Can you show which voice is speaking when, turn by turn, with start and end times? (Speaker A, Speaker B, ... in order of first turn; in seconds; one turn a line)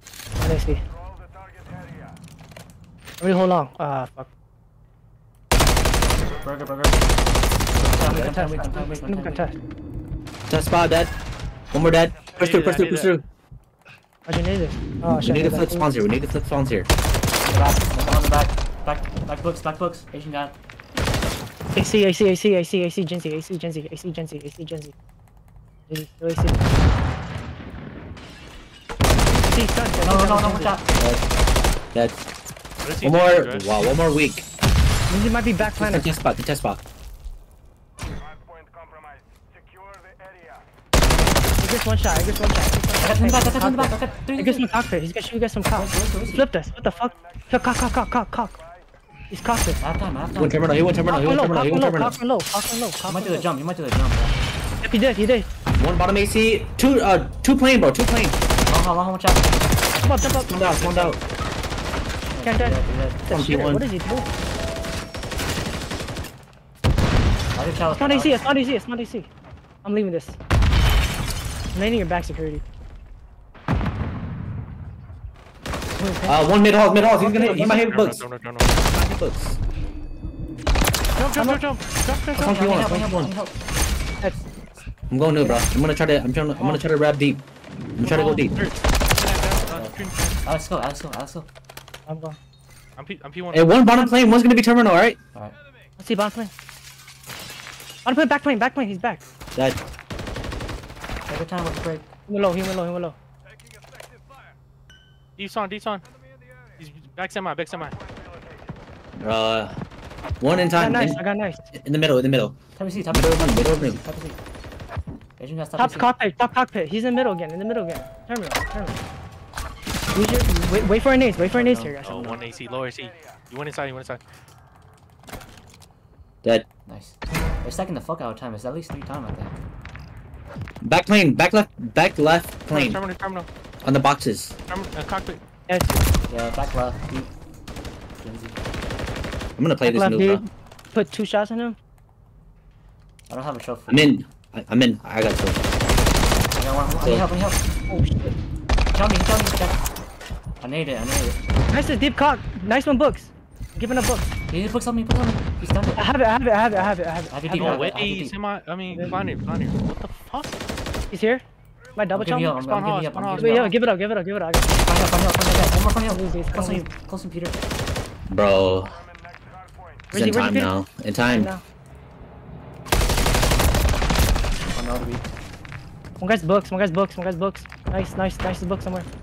Speaker A: 0.4-0.8
Speaker A: 3.2-4.3
Speaker B: 6.0-7.2
Speaker B: 7.7-9.5
Speaker A: 8.1-9.6
Speaker C: 10.5-11.1
Speaker C: 11.7-13.2
Speaker D: 12.3-13.1
Speaker A: 14.2-15.9
Speaker C: 15.2-16.9
Speaker B: 17.4-20.6
Speaker A: 21.7-24.9
Speaker A: 25.9-26.7
Speaker A: 29.3-30.8
Speaker B: 30.0-30.9
Speaker C: 31.0-31.2
Speaker C: 31.9-32.2
Speaker D: 32.8-33.8
Speaker C: 33.0-34.5
Speaker A: 35.1-36.1
Speaker C: 35.6-36.8
Speaker A: 41.6-48.6
Speaker B: 43.0-44.6
Speaker B: 45.7-46.5
Speaker A: 49.3-49.8
Speaker B: 49.8-50.6
Speaker C: 50.4-52.2
Speaker A: 51.1-53.5
Speaker B: 53.0-54.4
Speaker A: 54.8-55.5
Speaker C: 55.8-58.4
Speaker B: 58.6-59.5
Speaker A: 60.0-61.1
Speaker C: 60.5-61.2
Speaker B: 62.3-63.2
Speaker A: 62.4-64.3
Speaker C: 63.3-63.9
Speaker B: 67.5-68.4
Speaker A: 67.9-69.3
Speaker A: 69.8-70.4
Speaker A: 71.7-72.6
Speaker A: 76.0-76.5
Speaker C: 76.2-78.2
Speaker A: 77.1-77.8
Speaker D: 77.3-78.8
Speaker C: 78.9-79.6
Speaker A: 81.2-81.6
Speaker D: 81.3-82.6
Speaker C: 82.3-83.3
Speaker B: 82.4-83.6
Speaker B: 84.3-84.8
Speaker C: 85.1-87.4
Speaker A: 85.4-85.7
Speaker D: 86.5-86.8
Speaker C: 88.0-88.5
Speaker D: 88.0-90.4
Speaker B: 89.6-91.5
Speaker A: 92.1-92.4
Speaker D: 93.0-93.7
Speaker C: 93.5-95.2
Speaker A: 96.0-96.5
Speaker A: 98.0-99.2
Speaker C: 99.5-99.8
Speaker B: 101.3-102.1
Speaker A: 102.3-103.2
Speaker D: 105.4-106.0
Speaker D: 106.8-108.0
Speaker C: 109.2-109.8
Speaker C: 110.4-111.2
Speaker A: 110.8-111.7
Speaker C: 111.7-112.6
Speaker B: 112.8-114.4
Speaker C: 113.1-114.0
Speaker B: 115.4-116.1
Speaker A: 115.8-119.0
Speaker A: 120.1-122.1
Speaker B: 121.3-122.4
Speaker D: 122.0-124.2
Speaker B: 126.9-129.6
Speaker C: 130.8-133.0
Speaker D: 132.7-133.5
Speaker C: 133.8-134.5
Speaker D: 134.7-135.4
Speaker A: 135.7-136.0
Speaker B: 136.3-137.3
Speaker B: 138.2-138.6
Speaker C: 139.6-140.5
Speaker A: 139.8-141.8
Speaker B: 143.3-144.2
Speaker C: 143.9-145.7
Speaker B: 146.5-147.6
Speaker C: 147.0-147.3
Speaker A: 147.9-148.3
Speaker B: 148.9-149.8
Speaker B: 150.6-151.4
Speaker A: 151.7-154.3
Speaker B: 154.5-156.1
Speaker A: 156.0-157.9
Speaker B: 156.7-158.4
Speaker D: 157.6-160.6
Speaker A: 161.1-161.4
Speaker A: 161.9-162.6
Speaker B: 162.1-163.8
Speaker D: 162.6-163.8
Speaker A: 163.3-164.7
Speaker B: 164.8-167.6
Speaker A: 166.1-166.8
Speaker C: 168.3-169.0
Speaker A: 170.1-170.8
Speaker C: 170.1-171.5
Speaker A: 171.3-171.6
Speaker B: 174.7-175.3
Speaker A: 176.2-179.1